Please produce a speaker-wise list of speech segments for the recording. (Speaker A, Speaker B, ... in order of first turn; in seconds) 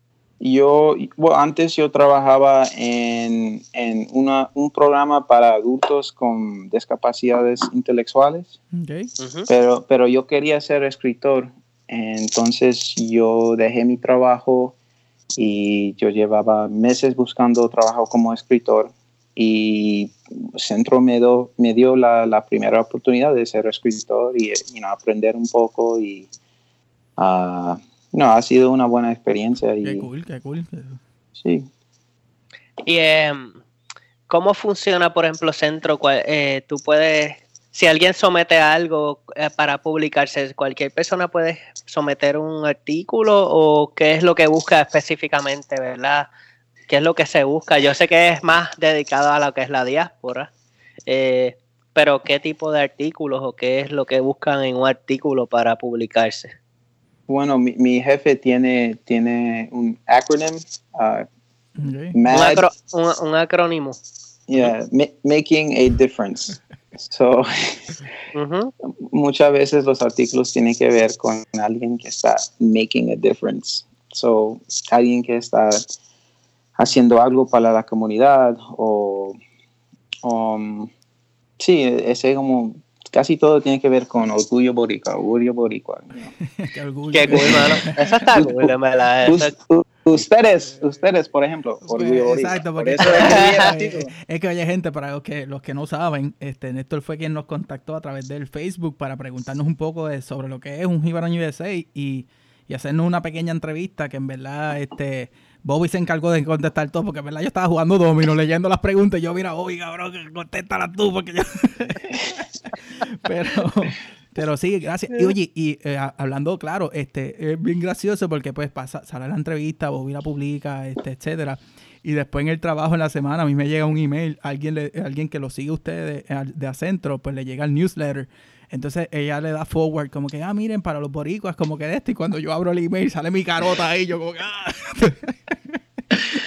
Speaker A: 0.4-8.5, 9.5-14.8, 15.3-26.3, 27.2-30.1, 31.4-31.7, 57.3-61.2, 62.1-62.6, 64.5-68.0, 69.0-75.8, 76.8-79.4, 80.2-80.9, 81.6-86.3, 87.3-87.6, 88.3-88.7, 89.2-94.1
Speaker B: 8.7-9.1, 29.8-31.0, 61.8-62.2, 86.5-88.1, 91.8-135.8
Speaker C: 9.2-9.5, 32.8-33.6, 34.3-46.3, 46.9-50.5, 51.1-56.5, 62.3-64.0, 68.3-68.7, 87.1-89.5, 93.0-93.7